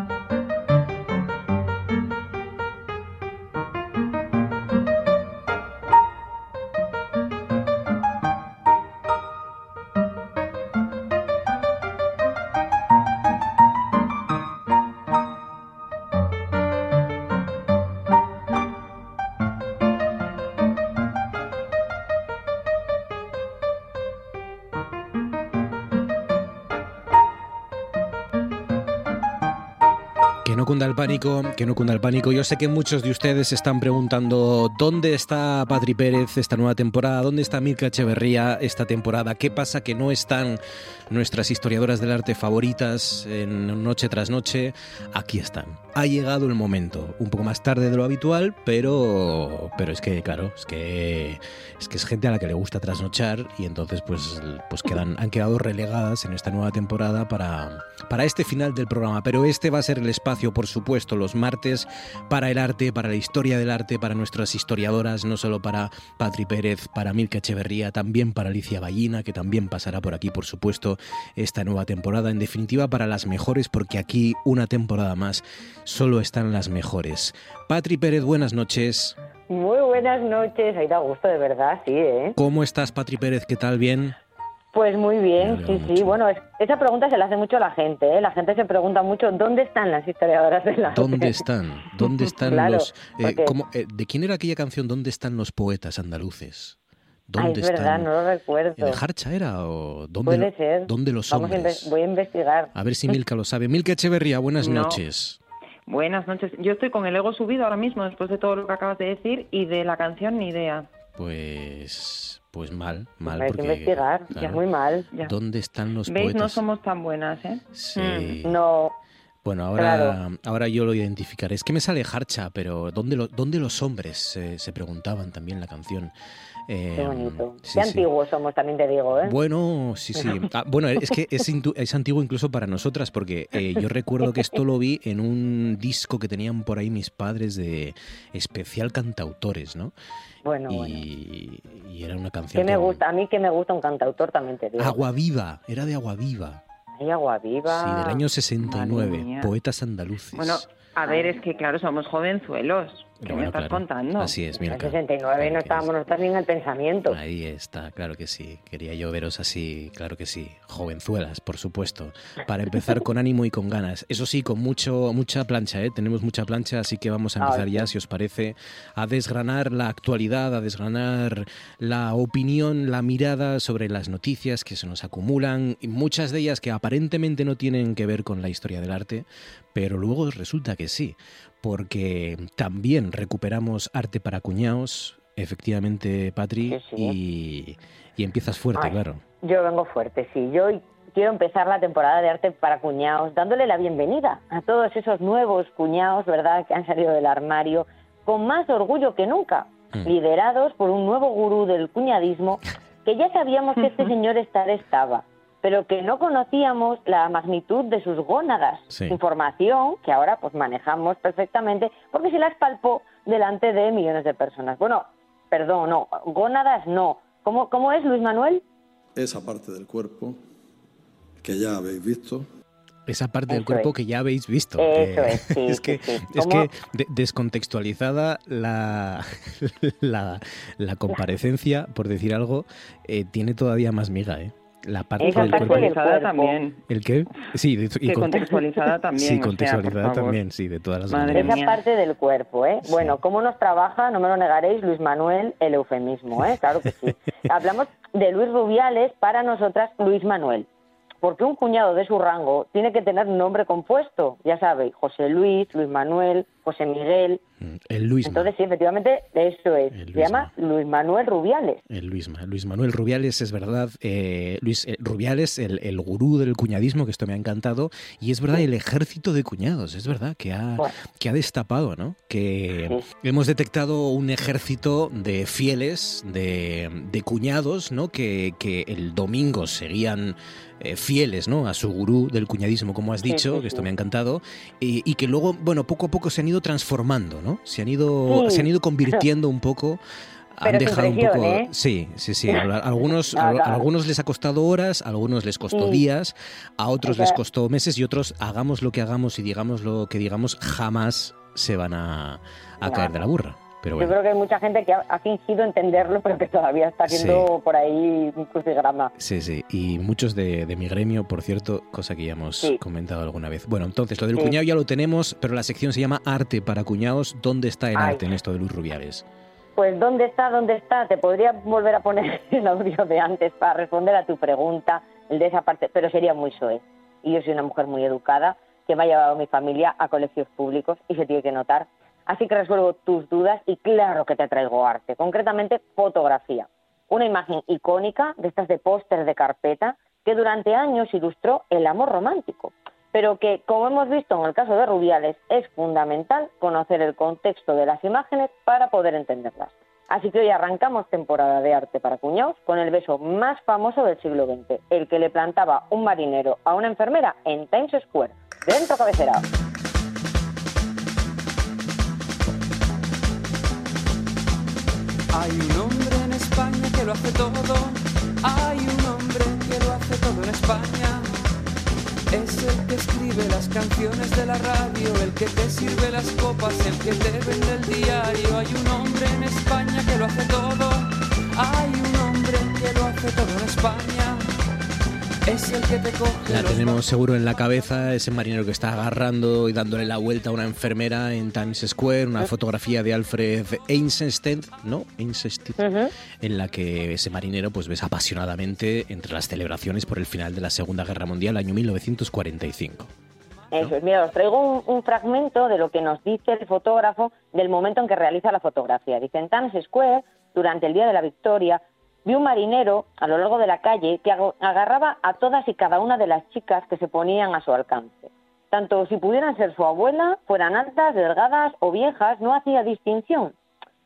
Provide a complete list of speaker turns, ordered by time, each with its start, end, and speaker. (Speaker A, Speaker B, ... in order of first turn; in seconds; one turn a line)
Speaker A: 30.4-79.2
Speaker B: 79.5-82.4
Speaker A: 82.3-84.1
Speaker B: 84.7-91.4
Speaker A: 85.4-86.2
Speaker A: 90.9-96.8
Speaker B: 92.0-93.5
Speaker A: 97.3-98.1
Speaker B: 97.4-99.0
Speaker A: 98.8-101.9
Speaker B: 100.2-103.2
Speaker A: 102.7-105.4
Speaker C: 104.6-105.0
Speaker C: 105.9-110.9
Speaker A: 111.1-114.6
Speaker B: 113.2-115.1
Speaker A: 115.2-116.6
Speaker C: 116.0-118.3
Speaker A: 117.7-118.5
Speaker B: 118.4-118.9
Speaker A: 119.4-126.1
Speaker B: 119.8-120.2
Speaker A: 126.7-128.0
Speaker B: 126.9-129.4
Speaker A: 129.2-139.9
Speaker B: 140.4-141.0
Speaker A: 140.7-143.0
Speaker B: 142.5-145.0
Speaker A: 144.8-146.6
Speaker B: 147.0-148.2
Speaker A: 147.7-150.6
Speaker C: 148.6-149.5
Speaker C: 150.3-154.3
Speaker B: 151.0-151.4
Speaker A: 153.2-155.9
Speaker B: 154.7-157.2
Speaker A: 157.1-189.2
Speaker B: 167.4-167.9
Speaker B: 186.7-187.1
Speaker B: 188.7-218.6
Speaker A: 208.9-209.2
Speaker D: 219.2-220.4
Speaker D: 221.4-222.5
Speaker A: 223.1-235.9
Speaker B: 223.5-223.9
Speaker B: 224.8-226.7
Speaker B: 235.2-236.6
Speaker C: 235.2-236.8
Speaker A: 236.9-238.6
Speaker C: 238.1-240.4
Speaker B: 238.4-238.7
Speaker A: 239.1-241.7
Speaker C: 241.1-241.8
Speaker B: 241.3-250.7
Speaker A: 242.8-243.2
Speaker B: 251.2-257.4
Speaker A: 257.6-258.5
Speaker B: 258.2-261.8
Speaker A: 259.9-260.5
Speaker A: 261.9-290.0
Speaker B: 283.2-283.9
Speaker B: 288.3-289.2
Speaker A: 290.5-304.1
Speaker B: 290.6-291.7
Speaker B: 293.3-293.8
Speaker B: 295.7-296.0
Speaker B: 297.0-297.4
Speaker B: 302.8-303.2
Speaker B: 304.0-309.1
Speaker A: 307.1-307.5
Speaker A: 309.2-319.2
Speaker B: 317.9-318.3
Speaker B: 319.8-359.4
Speaker E: 365.3-371.3
Speaker E: 372.3-384.5
Speaker E: 385.4-387.0
Speaker A: 386.4-395.8
Speaker B: 395.8-396.1
Speaker A: 396.4-403.1
Speaker B: 403.7-423.5